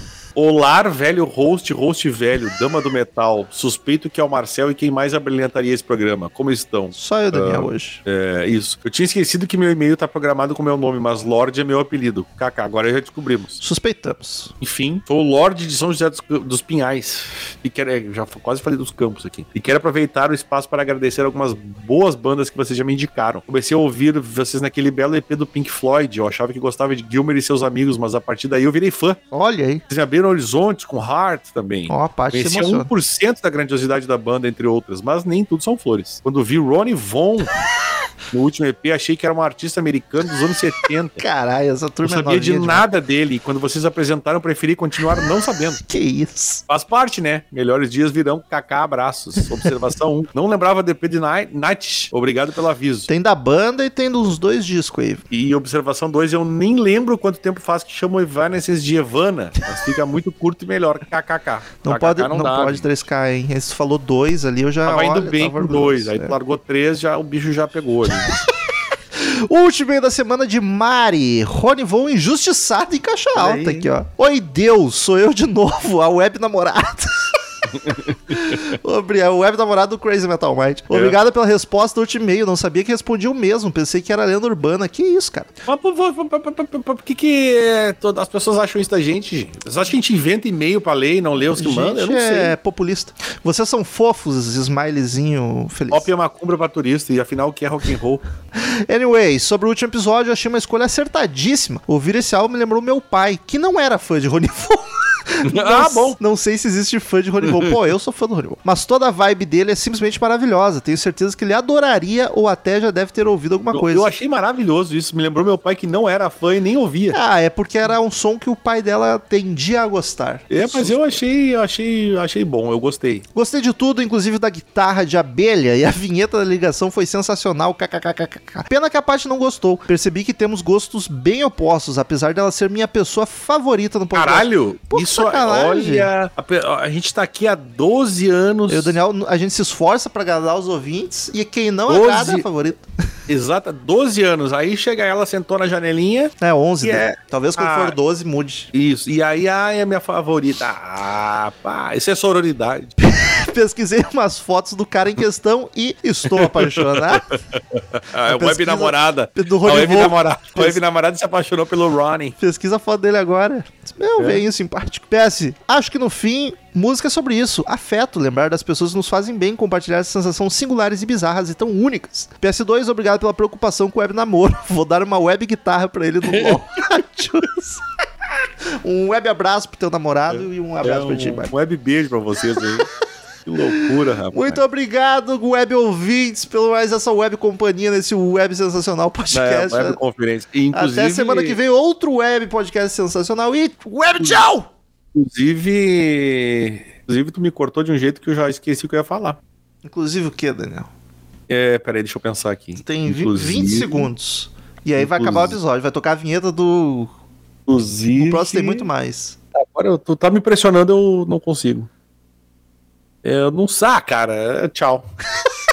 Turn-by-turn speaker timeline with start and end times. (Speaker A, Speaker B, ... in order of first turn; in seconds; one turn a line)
Speaker A: 0.3-13.6
Speaker B: 6.9-8.0
Speaker B: 13.6-14.5
Speaker A: 14.6-29.2
Speaker B: 29.3-29.8
Speaker A: 29.9-37.5
Speaker B: 31.9-32.9
Speaker A: 38.3-41.2
Speaker B: 41.2-42.9
Speaker A: 42.0-45.8
Speaker B: 45.8-46.6
Speaker A: 46.7-53.1
Speaker B: 53.1-55.2
Speaker A: 55.3-62.9
Speaker B: 61.8-66.3
Speaker A: 64.8-68.3
Speaker B: 68.1-68.5
Speaker B: 69.1-85.5
Speaker A: 73.3-73.9
Speaker A: 77.7-78.6
Speaker A: 80.9-81.2
Speaker A: 85.7-92.5
Speaker B: 91.5-96.1
Speaker A: 95.9-98.2
Speaker B: 98.6-114.1
Speaker A: 105.5-106.2
Speaker A: 113.7-117.2
Speaker B: 117.1-121.0
Speaker A: 120.5-123.2
Speaker B: 123.3-136.1
Speaker A: 134.1-138.9
Speaker B: 138.7-142.9
Speaker A: 141.9-142.4
Speaker A: 143.3-147.9
Speaker B: 146.4-148.7
Speaker A: 148.7-152.9
Speaker B: 153.0-157.2
Speaker A: 156.3-162.3
Speaker B: 158.2-160.8
Speaker B: 162.4-177.8
Speaker A: 176.3-176.6
Speaker B: 178.8-181.5
Speaker A: 180.3-182.9
Speaker A: 183.4-184.6
Speaker B: 184.3-190.0
Speaker A: 189.3-191.6
Speaker B: 190.7-194.7
Speaker A: 195.1-199.4
Speaker B: 199.8-200.9
Speaker A: 201.5-204.1
Speaker B: 202.8-207.1
Speaker A: 205.0-205.6
Speaker A: 207.7-208.9
Speaker B: 208.1-209.4
Speaker A: 209.6-211.9
Speaker A: 213.2-215.1